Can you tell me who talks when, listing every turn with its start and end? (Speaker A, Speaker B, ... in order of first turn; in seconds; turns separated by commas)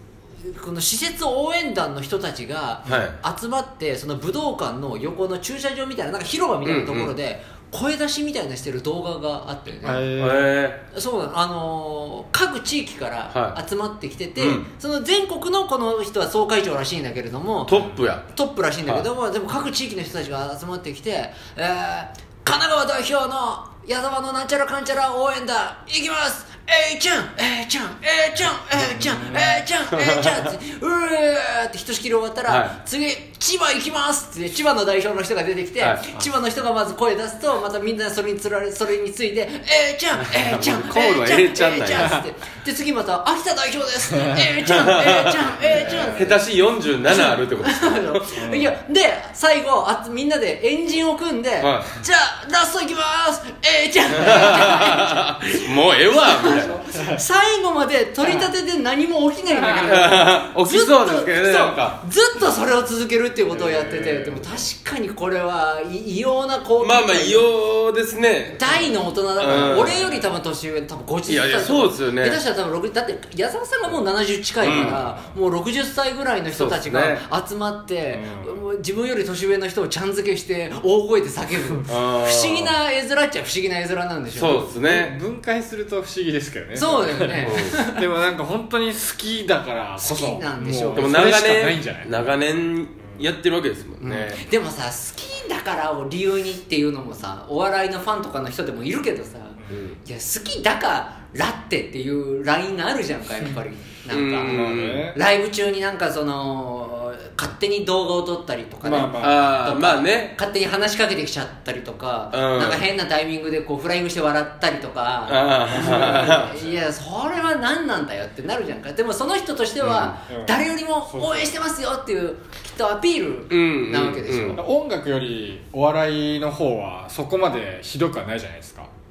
Speaker A: 0.4-10.1, Speaker B: 2.9-3.2, Speaker B: 6.6-7.1, Speaker C: 9.8-10.5, Speaker B: 10.2-10.8, Speaker A: 10.9-46.4, Speaker B: 13.3-13.6, Speaker B: 14.3-14.7, Speaker B: 17.7-18.3, Speaker C: 28.8-29.6, Speaker B: 32.5-32.8, Speaker B: 35.8-36.1, Speaker B: 40.2-42.2, Speaker B: 44.6-45.4, Speaker C: 45.6-46.2, Speaker B: 46.0-48.2, Speaker A: 47.1-67.5, Speaker C: 48.4-48.7, Speaker B: 51.6-51.9, Speaker B: 54.1-56.8, Speaker C: 56.8-57.2, Speaker B: 59.8-62.0, Speaker C: 63.5-64.6, Speaker B: 66.8-68.7, Speaker A: 68.5-84.6, Speaker B: 69.4-70.2, Speaker B: 71.3-72.4, Speaker B: 74.6-75.0, Speaker C: 74.7-75.3, Speaker B: 76.5-77.2, Speaker C: 78.1-78.5, Speaker B: 81.8-82.7, Speaker B: 84.3-85.2, Speaker C: 84.5-92.1, Speaker A: 86.7-88.0, Speaker B: 87.4-87.8, Speaker A: 90.0-91.3, Speaker B: 90.9-94.4, Speaker A: 94.0-124.6, Speaker B: 99.7-100.0, Speaker B: 104.1-105.1, Speaker C: 104.5-105.2, Speaker C: 108.8-109.5, Speaker B: 109.2-110.3, Speaker B: 112.3-112.8, Speaker B: 115.3-116.6, Speaker C: 115.7-116.7, Speaker B: 119.8-120.2, Speaker C: 120.3-121.6, Speaker B: 123.5-124.6, Speaker C: 124.5-128.9